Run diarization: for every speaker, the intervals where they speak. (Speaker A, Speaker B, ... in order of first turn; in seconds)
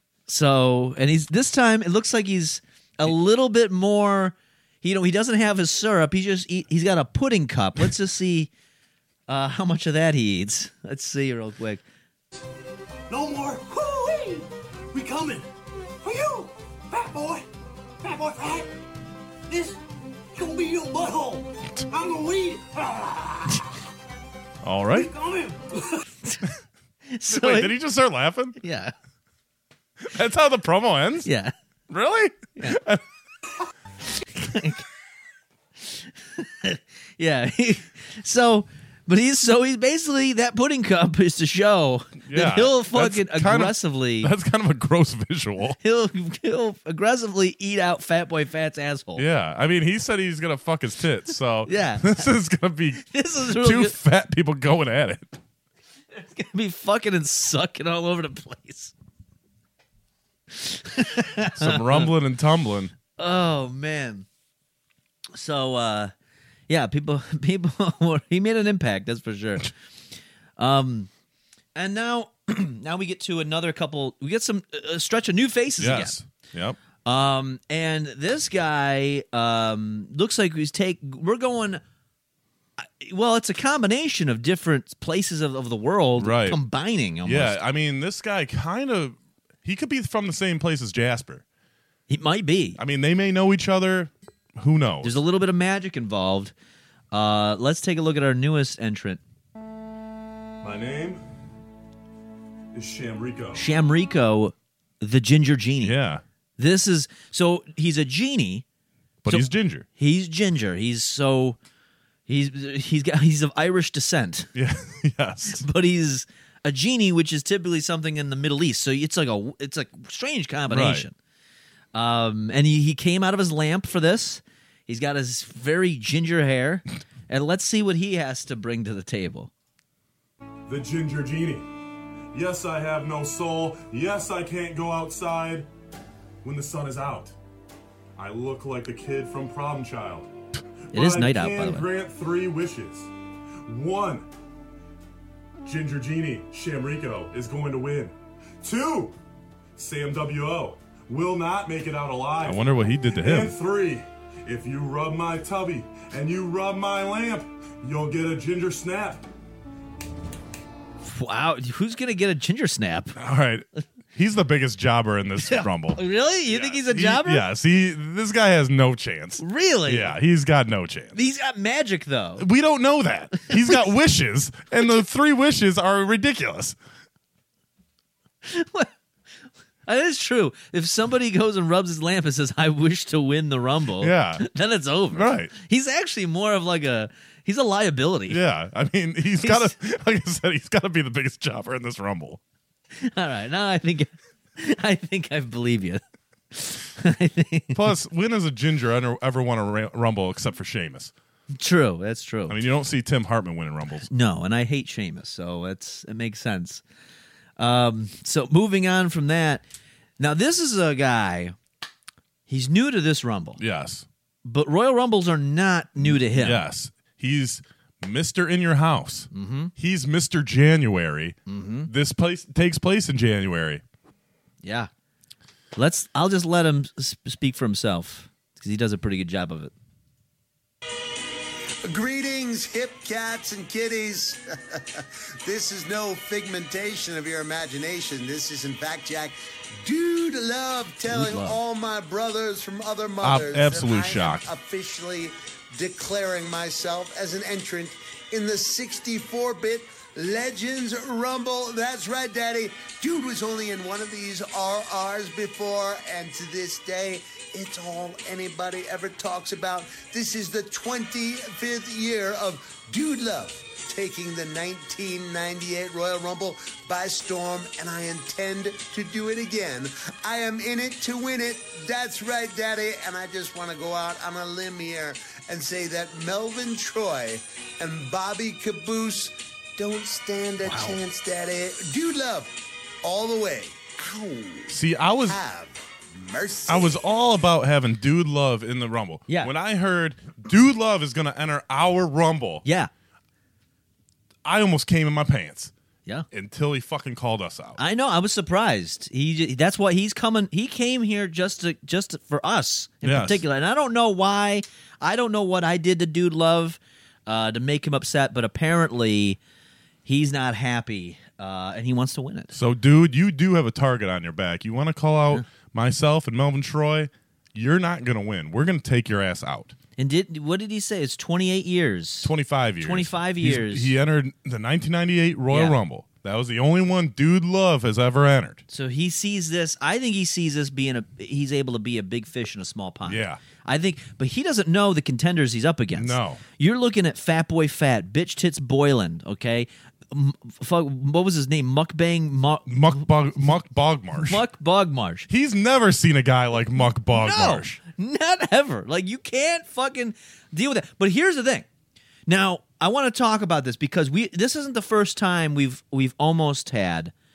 Speaker A: 0.3-8.5, 9.3-11.8, 27.1-27.8, 28.6-28.9, 31.2-31.5, 34.3-34.8, 35.8-44.3, 45.8-49.3, 51.7-52.3, 53.0-54.0, 56.2-58.9, 60.5-62.1, 63.2-64.3, 65.3-66.1, 66.7-69.7, 70.6-71.1, 71.8-76.2, 77.0-81.8, 82.8-87.6, 92.1-92.8, 95.0-96.5, 97.1-99.2, 103.5-106.0, 106.6-108.7, 109.3-111.6, 112.3-114.5, 115.5-121.2, 121.9-129.5, 140.9-141.9, 161.0-163.2, 165.4-167.5, 169.4-170.2, 171.1-172.4, 178.4-178.9, 179.9-188.4, 189.4-189.7, 192.9-196.0, 196.5-197.8, 201.5-202.6, 204.1-206.8, 207.6-209.6, 210.2-211.6, 212.5-213.6, 214.4-216.6, 219.3-219.7, 221.5-221.9, 224.6-224.9, 225.8-229.7, 241.1-241.6, 280.6-281.0, 292.6-292.9, 297.8-309.4, 310.1-312.6, 320.0-323.9, 325.5-325.8, 328.7-343.4, 344.2-345.3, 347.1-351.7, 352.3-357.1
Speaker B: 13.1-15.5, 16.0-17.5, 18.0-18.7, 19.5-19.8, 20.3-23.6, 24.9-26.0
Speaker C: 24.6-25.1, 27.3-28.6, 30.0-31.3, 31.9-33.0, 42.2-45.8, 49.2-55.4, 61.5-62.9, 75.8-76.8, 86.2-86.6, 87.2-91.4, 92.8-95.2, 100.6-101.2, 103.3-103.7, 105.8-106.2, 109.2-109.9, 114.5-115.7, 120.7-121.1, 152.4-153.6, 163.2-171.2, 172.4-176.8, 184.0-184.5, 185.1-185.5, 188.3-192.4, 197.7-201.1, 202.5-204.1, 213.6-214.1, 216.0-223.8, 243.2-244.5, 284.7-285.4, 286.7-292.6, 294.4-295.7, 296.3-297.8, 303.0-303.4, 312.5-319.8, 322.2-328.6, 333.1-333.4, 335.9-336.4, 342.7-344.4, 345.3-347.8
Speaker D: 102.8-103.3, 130.7-131.7, 132.3-135.7, 136.4-137.3, 138.2-140.3, 140.9-143.1, 143.7-144.3, 145.7-149.2, 149.8-152.6, 153.1-159.2
Speaker E: 231.8-287.0